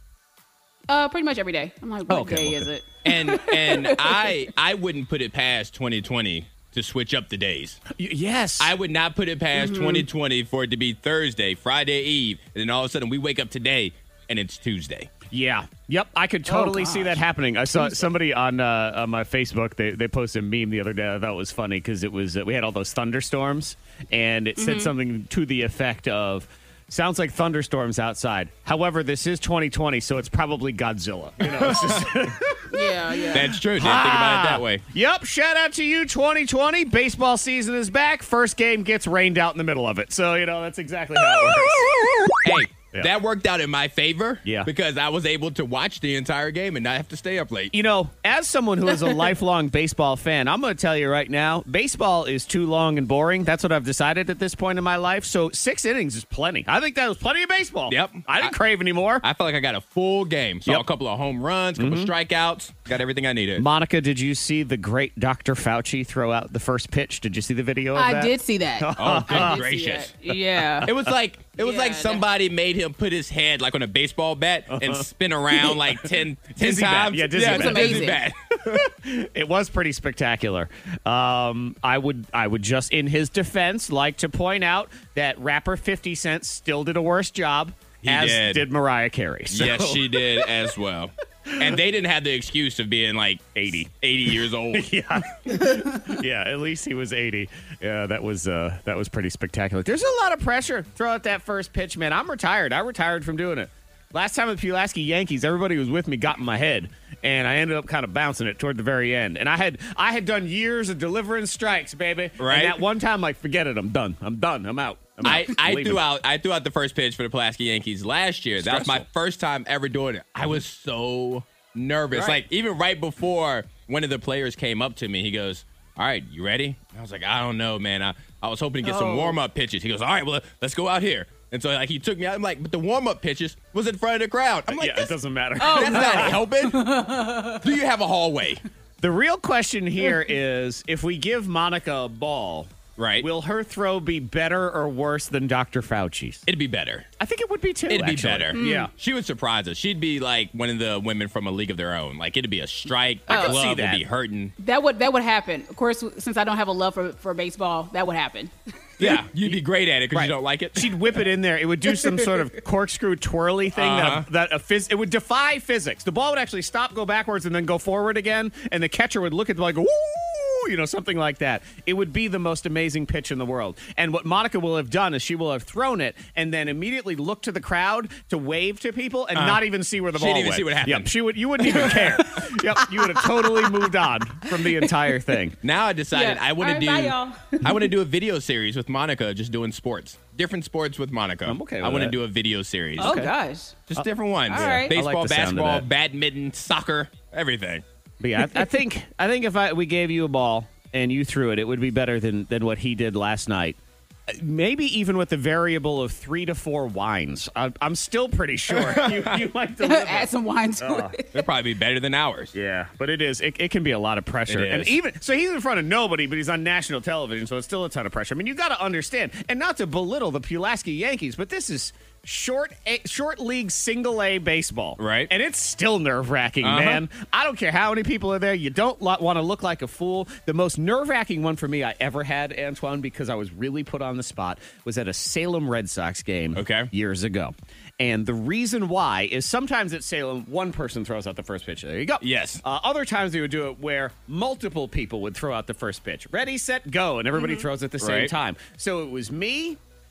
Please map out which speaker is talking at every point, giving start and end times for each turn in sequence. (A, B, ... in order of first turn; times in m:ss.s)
0:00.9-0:04.3 A
0:02.1-0:02.7 B
0:03.0-0:07.8 C
0:07.9-0:08.7 B
0:08.6-0:15.1 C
0:09.5-0:10.0 A
0:15.3-0:41.9 B
0:16.5-0:17.2 A
0:24.6-0:24.9 A
0:31.4-0:32.2 C
0:32.7-0:33.5 A
0:33.3-0:34.8 C
0:41.4-0:41.8 C
0:42.4-0:47.7 C
0:44.4-0:44.7 B
0:47.7-0:59.2 B
0:57.9-0:58.6 C
0:59.2-1:03.6 C
1:01.8-1:02.1 B
1:03.6-1:09.6 B
1:07.9-1:10.9 A
1:09.0-1:10.2 C
1:10.8-1:18.9 C
1:11.6-1:12.2 A
1:14.7-1:30.3 B
1:17.3-1:18.2 A
1:28.0-1:28.7 C
1:29.5-1:34.9 C
1:33.5-1:33.9 B
1:34.7-1:56.0 B
1:52.4-1:52.8 C
1:55.2-2:16.9 C
1:58.6-1:59.1 B
2:02.1-2:02.4 B
2:08.8-2:09.4 A
2:14.7-2:16.4 B
2:15.6-2:17.6 A
2:17.5-2:18.6 C
2:19.0-2:26.4 B
2:23.0-2:23.3 C
2:26.5-2:27.1 C
2:27.2-2:28.9 B
2:27.9-2:34.5 C
2:28.6-2:28.9 A
2:33.3-2:34.0 B
2:33.3-2:33.5 A
2:34.6-2:38.5 A
2:39.0-2:41.2 C
2:40.1-3:05.6 B
2:43.7-2:44.3 C
2:59.3-3:02.2 C
3:03.2-3:03.7 A
3:04.6-3:05.1 A
3:05.6-3:13.3 C
3:06.1-3:07.9 A
3:11.4-3:12.2 B
3:13.0-3:13.9 A
3:13.0-3:13.3 B
3:13.9-3:17.8 C
3:14.5-3:14.9 A
3:14.5-3:15.9 B
3:18.2-3:31.2 B
3:28.7-3:29.4 C
3:29.8-3:31.4 A
3:31.3-3:32.5 C
3:32.5-4:09.8 B
3:34.5-3:35.0 C
3:45.0-3:45.3 C
3:46.6-3:47.0 C
3:56.6-3:56.9 C
4:02.2-4:02.6 C
4:07.3-4:07.7 A
4:08.0-4:08.3 C